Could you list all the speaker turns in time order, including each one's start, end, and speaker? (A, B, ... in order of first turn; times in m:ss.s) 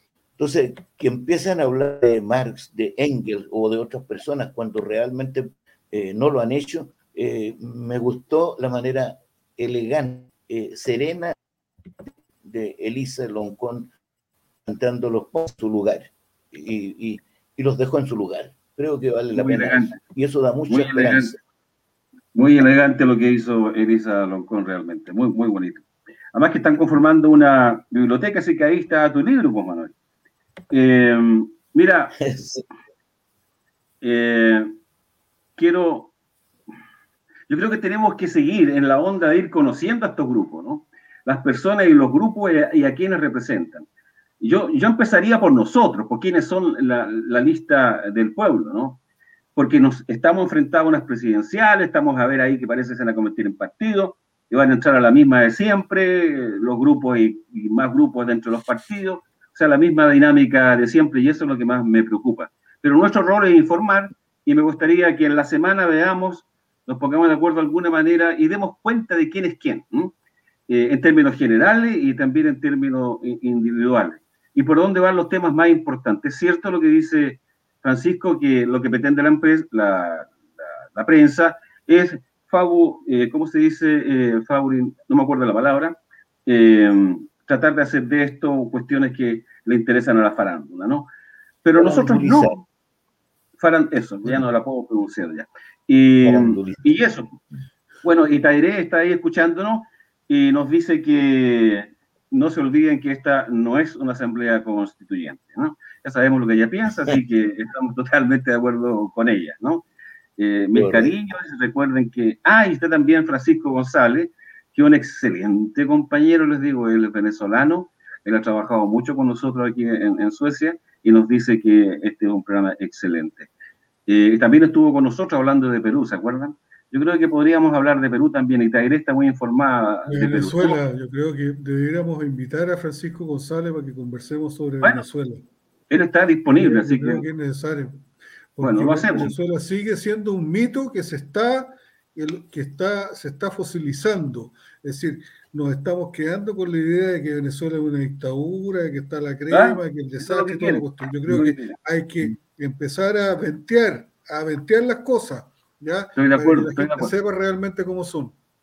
0:00.4-0:11.3 A
0:12.4-0:13.9 A
0:14.6-0:21.4 A
0:19.3-0:20.0 B
0:20.7-0:21.4 B
0:22.3-0:29.9 B
0:30.7-0:32.2 B
0:32.2-0:32.6 A
0:34.0-0:34.8 B
0:35.6-0:36.1 B
0:37.5-0:43.9 B
0:44.4-0:49.0 B
0:49.5-1:10.1 B
1:10.7-1:20.4 B
1:20.9-1:31.1 B
1:31.6-1:32.5 B
1:31.8-1:32.6 A
1:33.6-1:37.4 B
1:36.2-1:36.9 A
1:38.0-1:49.8 B
1:50.4-2:03.5 B
1:50.7-1:51.1 A
2:04.1-2:10.8 B
2:10.1-2:15.4 C
2:15.9-2:17.2 B
2:16.6-2:18.0 C
2:18.6-2:38.4 C
2:18.6-2:19.3 B
2:29.5-2:31.8 B
2:36.2-2:37.1 B